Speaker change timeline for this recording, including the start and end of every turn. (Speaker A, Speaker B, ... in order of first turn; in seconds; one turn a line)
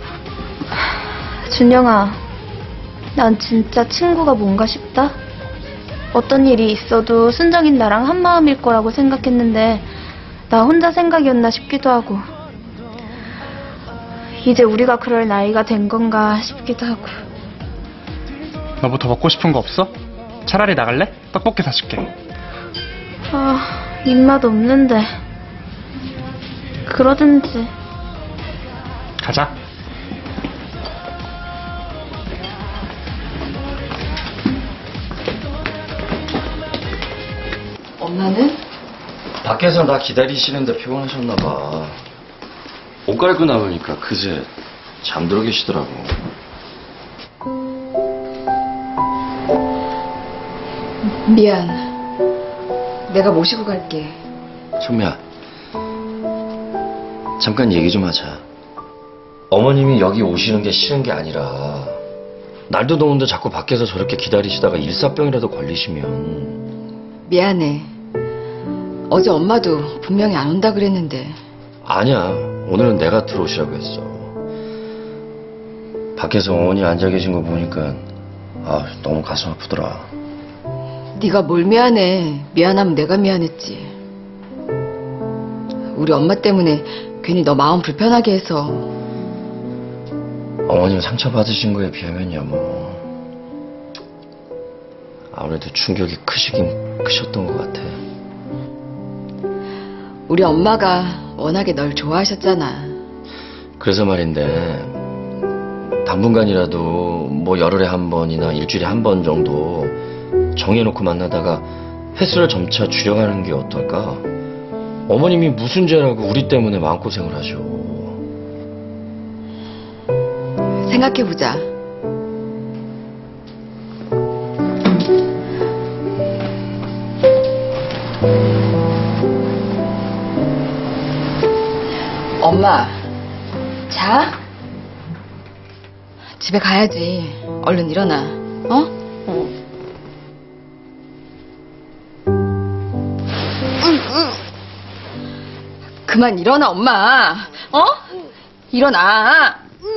Speaker A: 1.4-2.2
Speaker A: 3.1-5.2
Speaker A: 6.1-9.9
Speaker A: 10.5-12.2
Speaker A: 14.4-17.2
Speaker B: 18.8-19.9
Speaker B: 20.4-22.1
Speaker A: 23.3-25.1
Speaker A: 26.8-27.7
Speaker B: 29.2-29.5
Speaker C: 38.0-38.6
Speaker D: 39.4-42.0
Speaker D: 43.1-44.5
Speaker D: 45.0-46.1
Speaker C: 51.2-52.0
Speaker C: 53.1-54.2
Speaker D: 54.8-55.2
Speaker D: 57.4-58.4
Speaker D: 59.5-62.0
Speaker D: 62.7-66.6
Speaker C: 67.3-67.9
Speaker C: 69.1-71.4
Speaker D: 71.8-74.3
Speaker D: 76.2-78.1
Speaker D: 78.6-80.1
Speaker C: 81.2-83.9
Speaker C: 85.9-88.9
Speaker D: 90.7-93.0
Speaker D: 95.3-98.0
Speaker C: 100.3-103.0
Speaker D: 103.8-105.0
Speaker D: 106.0-110.0
Speaker D: 110.5-114.3
Speaker D: 115.1-118.2
Speaker C: 120.8-121.7
Speaker C: 132.4-133.0
Speaker C: 133.9-134.4
Speaker C: 136.4-139.4
Speaker C: 146.1-147.9
Speaker C: 148.7-149.6